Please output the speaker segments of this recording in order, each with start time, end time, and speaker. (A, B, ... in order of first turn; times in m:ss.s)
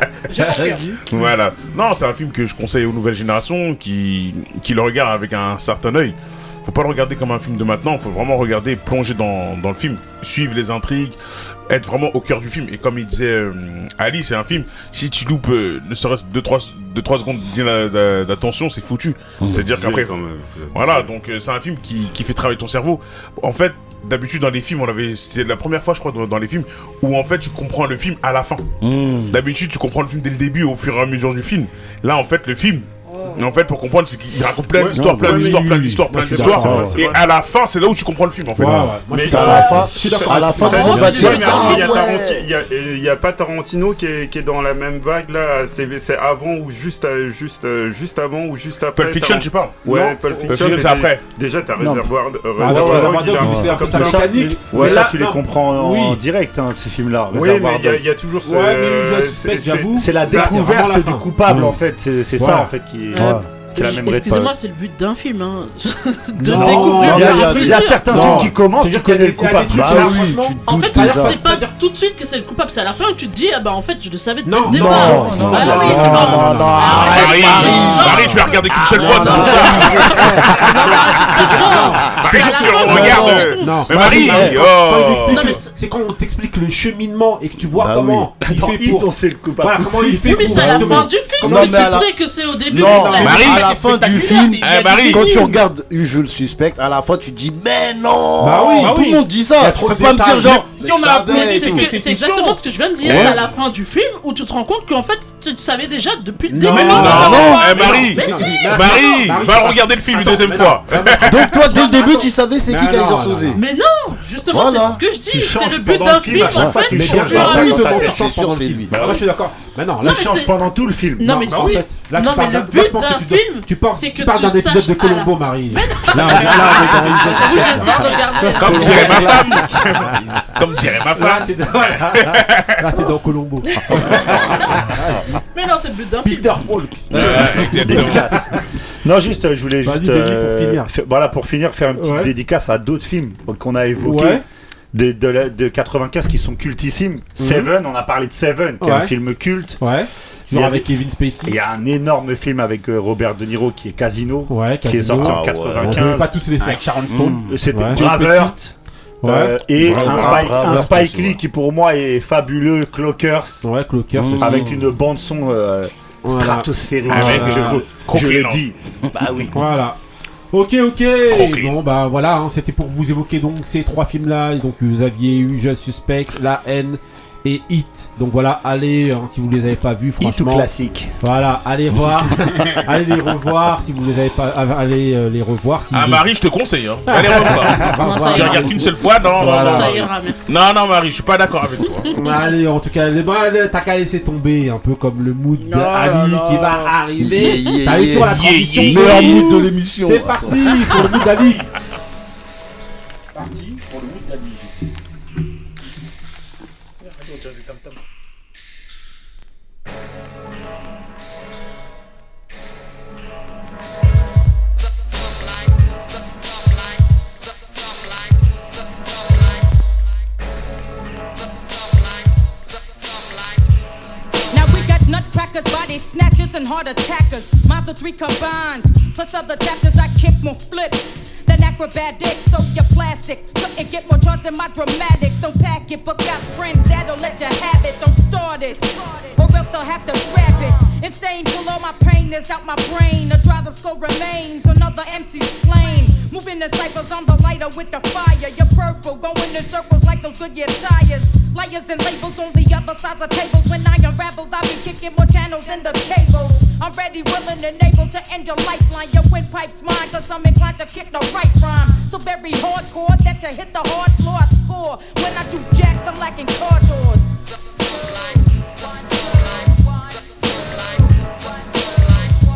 0:00.3-0:01.0 A
0:00.4-0:01.0 B
0:01.1-0:11.2 C
0:11.7-0:20.2 C
0:19.4-0:19.7 D
0:19.6-0:21.1 E
0:20.7-0:28.6 C
0:28.8-0:29.4 D
0:29.3-0:39.0 C
0:34.8-0:37.3 E
0:34.8-0:37.0 B
0:35.0-0:35.8 D
0:36.4-0:37.0 D
0:38.6-0:41.7 B
0:39.1-0:55.1 E
0:39.2-0:42.5 D
0:39.6-0:42.4 A
0:49.0-0:49.9 C
0:49.9-0:50.8 B
0:50.5-0:51.2 C
0:51.8-0:52.1 F
0:52.6-0:56.2 B
0:52.6-0:58.0 F
0:53.4-0:53.7 D
0:57.3-1:00.7 E
0:58.4-1:01.7 B
1:00.0-1:04.5 F
1:01.5-1:01.8 D
1:02.4-1:02.7 B
1:03.1-1:08.3 A
1:03.1-1:03.5 D
1:04.1-1:04.5 D
1:06.4-1:11.7 B
1:06.5-1:10.3 F
1:06.8-1:08.5 D
1:09.7-1:11.5 D
1:10.7-1:24.4 A
1:14.4-1:32.0 B
1:14.7-1:18.4 D
1:15.1-1:15.7 F
1:17.0-1:25.6 C
1:18.9-1:20.5 D
1:22.9-1:23.2 D
1:23.9-1:24.6 D
1:25.3-1:25.7 A
1:27.7-1:28.3 D
1:28.4-1:31.0 F
1:30.2-1:34.5 A
1:30.6-1:32.1 D
1:32.7-1:41.9 D
1:32.8-1:33.5 B
1:33.2-1:33.6 C
1:33.5-1:35.6 G
1:34.6-1:35.4 C
1:38.4-1:40.7 B
1:40.5-1:42.6 G
1:41.2-1:49.6 A
1:43.0-1:43.4 D
1:43.1-1:43.4 B
1:43.1-1:43.3 C
1:46.5-1:53.6 B
1:46.8-1:51.5 C
1:47.1-1:47.8 D
1:51.1-1:53.6 D
1:51.9-1:52.2 A
1:53.5-1:58.2 A
1:54.5-1:55.0 D
1:55.3-1:58.2 F
1:56.3-1:59.0 D
1:56.9-2:00.5 B
1:58.9-1:59.3 F
2:00.0-2:01.7 F
2:00.0-2:09.6 A
2:01.2-2:10.1 B
2:06.5-2:07.2 G
2:07.8-2:08.2 G
2:08.5-2:12.9 C
2:11.2-2:15.4 B
2:14.1-2:15.0 A
2:15.5-2:16.6 A
2:16.2-2:18.4 B
2:17.1-2:18.4 C
2:17.2-2:18.5 F
2:19.0-2:29.8 F
2:19.8-2:20.9 B
2:22.0-2:22.3 B
2:24.0-2:24.4 B
2:27.4-2:27.7 B
2:28.8-2:29.1 B
2:29.8-2:31.6 B
2:30.5-2:30.9 F
2:31.5-2:36.3 F
2:34.5-2:36.8 B
2:35.0-2:36.2 D
2:36.6-2:37.5 G
2:37.1-2:38.0 D
2:37.4-2:43.6 F
2:37.7-2:38.5 B
2:39.2-2:40.9 B
2:39.8-2:41.4 D
2:43.6-2:44.6 B
2:44.1-2:44.9 D
2:44.4-2:49.5 F
2:46.2-2:47.8 B
2:47.1-2:48.6 C
2:49.5-2:50.0 B
2:50.5-3:00.7 B
2:51.3-2:51.8 C
3:00.2-3:01.1 F
3:01.2-3:06.3 B
3:05.9-3:12.1 C
3:07.1-3:10.0 B
3:07.9-3:10.5 A
3:11.9-3:12.6 A
3:12.1-3:21.7 B
3:15.6-3:17.0 A
3:17.2-3:20.7 D
3:18.2-3:19.4 C
3:23.4-3:24.5 G
3:44.5-4:27.3 H